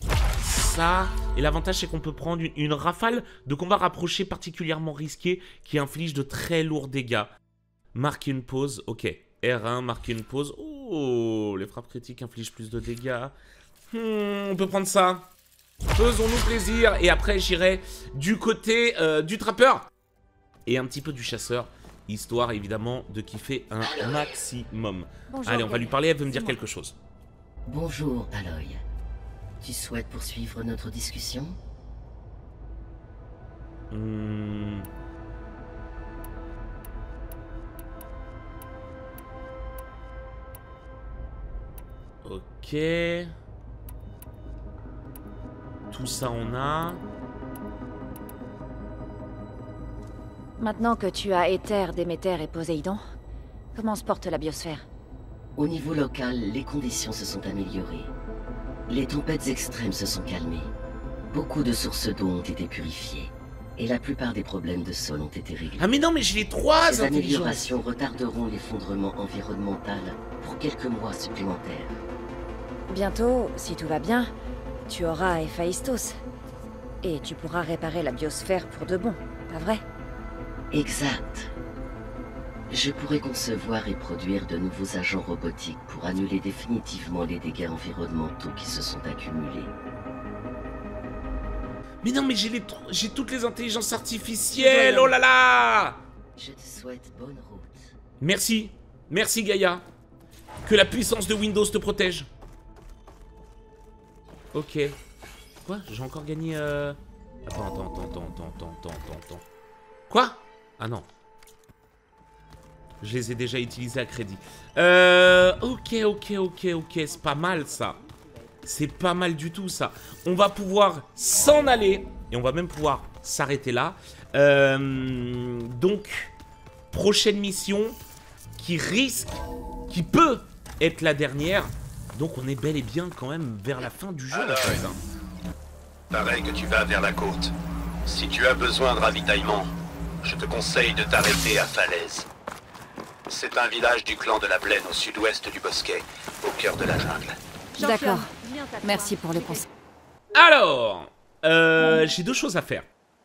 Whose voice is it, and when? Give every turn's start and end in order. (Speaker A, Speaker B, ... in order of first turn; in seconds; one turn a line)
Speaker A: 0.4-7.3
Speaker A: 7.9-13.3
Speaker A: 13.9-15.3
Speaker A: 16.0-19.9
Speaker A: 20.7-27.0
Speaker B: 25.3-26.6
Speaker C: 27.6-28.8
Speaker C: 29.6-31.6
Speaker A: 33.9-34.9
Speaker A: 42.2-43.3
Speaker A: 45.9-47.0
Speaker B: 50.6-53.0
Speaker B: 53.8-54.9
Speaker C: 55.6-58.1
Speaker C: 58.9-60.7
Speaker C: 61.3-65.9
Speaker A: 65.8-67.7
Speaker C: 66.8-72.0
Speaker B: 72.9-74.3
Speaker B: 74.9-76.2
Speaker B: 77.0-79.8
Speaker C: 80.7-81.5
Speaker C: 82.7-89.7
Speaker A: 92.0-96.0
Speaker B: 94.6-95.1
Speaker C: 96.4-97.9
Speaker A: 98.2-99.8
Speaker A: 100.6-102.3
Speaker A: 104.5-105.0
Speaker A: 105.7-109.5
Speaker A: 110.1-111.1
Speaker A: 113.0-118.0
Speaker A: 118.7-126.3
Speaker A: 126.9-128.0
Speaker A: 128.6-135.0
Speaker D: 134.3-134.9
Speaker D: 136.1-137.5
Speaker D: 138.1-139.7
Speaker D: 140.2-142.3
Speaker D: 143.3-147.4
Speaker B: 147.8-149.7
Speaker A: 150.3-152.9